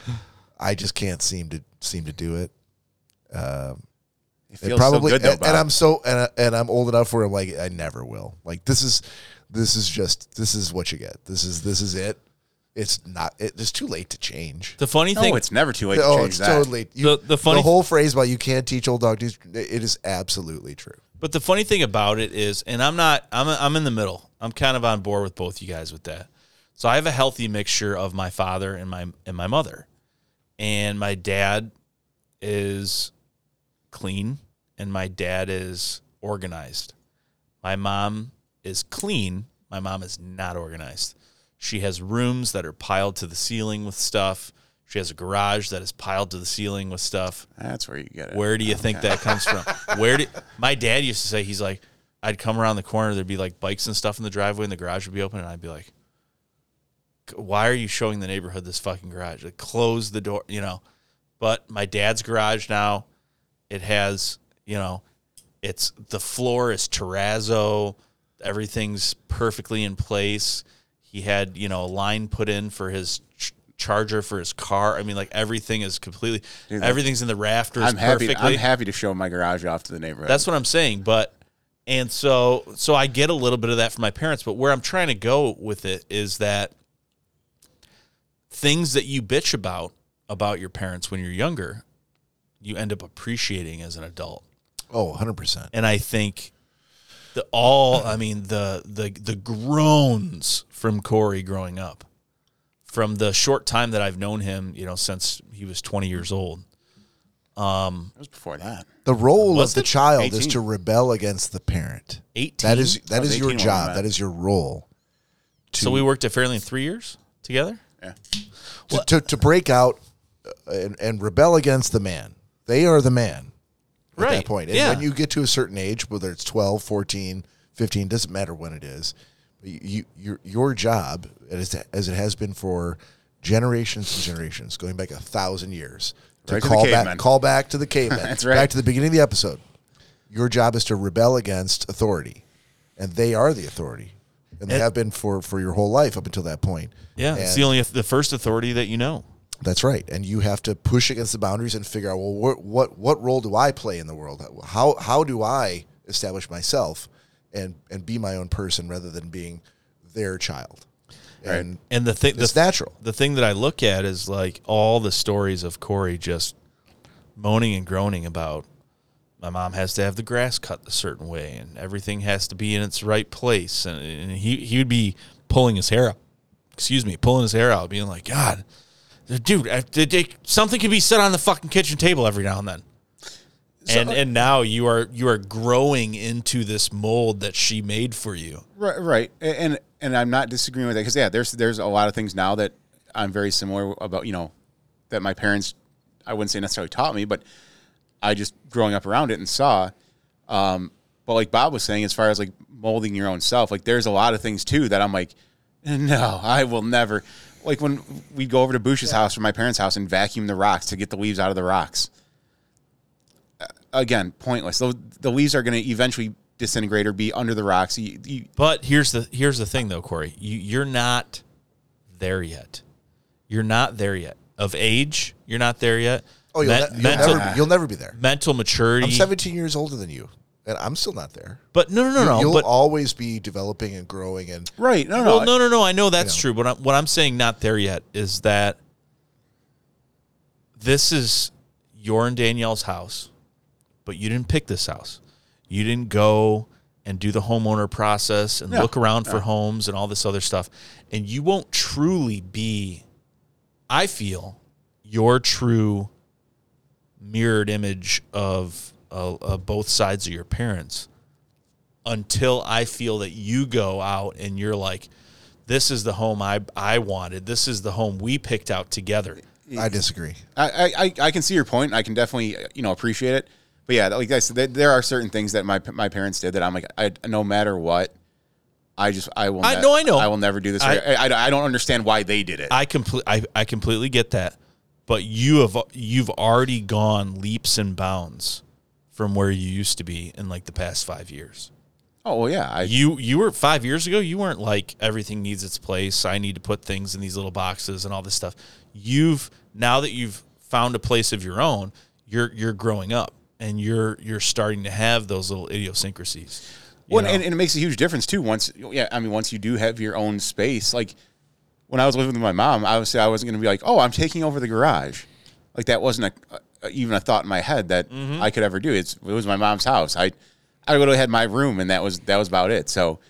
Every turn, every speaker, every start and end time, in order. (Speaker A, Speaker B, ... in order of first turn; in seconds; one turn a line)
Speaker A: 0.6-2.5
Speaker A: 3.3-3.8
Speaker B: 4.5-5.7
Speaker A: 4.6-12.2
Speaker A: 12.7-14.8
Speaker C: 14.8-15.4
Speaker B: 15.2-16.7
Speaker A: 15.9-21.0
Speaker C: 17.0-17.7
Speaker C: 21.2-29.9
Speaker C: 30.6-31.7
Speaker C: 32.4-33.1
Speaker C: 33.9-36.9
Speaker C: 37.6-47.5
Speaker B: 47.6-49.5
Speaker C: 48.3-55.9
Speaker C: 57.3-60.8
Speaker C: 61.4-63.1
Speaker C: 63.7-65.0
Speaker C: 65.6-78.7
Speaker B: 76.7-77.0
Speaker B: 77.8-80.5
Speaker C: 80.3-81.3
Speaker C: 81.9-86.7
Speaker C: 88.5-91.8
Speaker C: 92.6-94.4
Speaker A: 94.9-95.7
Speaker C: 95.7-96.5
Speaker C: 97.3-102.1
Speaker C: 102.9-106.6
Speaker C: 107.6-108.1
Speaker B: 108.2-108.9
Speaker A: 109.0-114.9
Speaker C: 109.5-109.9
Speaker B: 110.2-110.6
Speaker C: 112.3-113.0
Speaker B: 113.1-114.0
Speaker A: 115.7-116.1
Speaker C: 115.8-117.8
Speaker A: 118.9-123.5
Speaker A: 124.2-139.6
Speaker C: 124.2-125.1
Speaker B: 136.5-137.2
Speaker B: 138.1-138.7
Speaker A: 140.3-142.4
Speaker A: 143.0-147.7
Speaker C: 147.2-149.2
Speaker A: 149.6-160.8
Speaker A: 161.4-161.8
Speaker C: 161.9-166.5
Speaker A: 162.3-162.9
Speaker C: 167.4-168.7
Speaker C: 169.4-176.2
Speaker C: 176.8-178.6
Speaker C: 179.3-182.8
Speaker B: 183.8-184.2
Speaker C: 183.9-188.6
Speaker B: 188.8-194.5
Speaker B: 195.1-195.7
Speaker B: 196.3-197.4
Speaker B: 198.2-199.9
Speaker B: 200.5-212.1
Speaker B: 213.6-218.5
Speaker C: 218.6-221.4
Speaker C: 222.1-222.8
Speaker C: 223.5-227.6
Speaker A: 226.5-228.2
Speaker B: 226.9-227.7
Speaker C: 228.1-229.3
Speaker A: 229.0-231.6
Speaker C: 231.7-232.7
Speaker A: 232.2-234.7
Speaker B: 234.8-235.5
Speaker C: 235.2-238.8
Speaker C: 240.8-243.3
Speaker C: 244.1-253.0
Speaker B: 248.7-249.4
Speaker C: 253.9-256.1
Speaker C: 257.2-261.1
Speaker C: 262.1-265.1
Speaker C: 265.7-269.4
Speaker B: 269.6-269.9
Speaker A: 269.8-270.4
Speaker B: 270.6-278.1
Speaker B: 279.0-282.7
Speaker C: 279.6-281.0
Speaker C: 282.7-284.6
Speaker C: 285.1-288.6
Speaker C: 289.1-291.7
Speaker B: 292.2-292.9
Speaker C: 292.8-307.4
Speaker B: 307.1-311.1
Speaker B: 311.9-320.3
Speaker C: 318.1-318.5
Speaker B: 320.9-323.2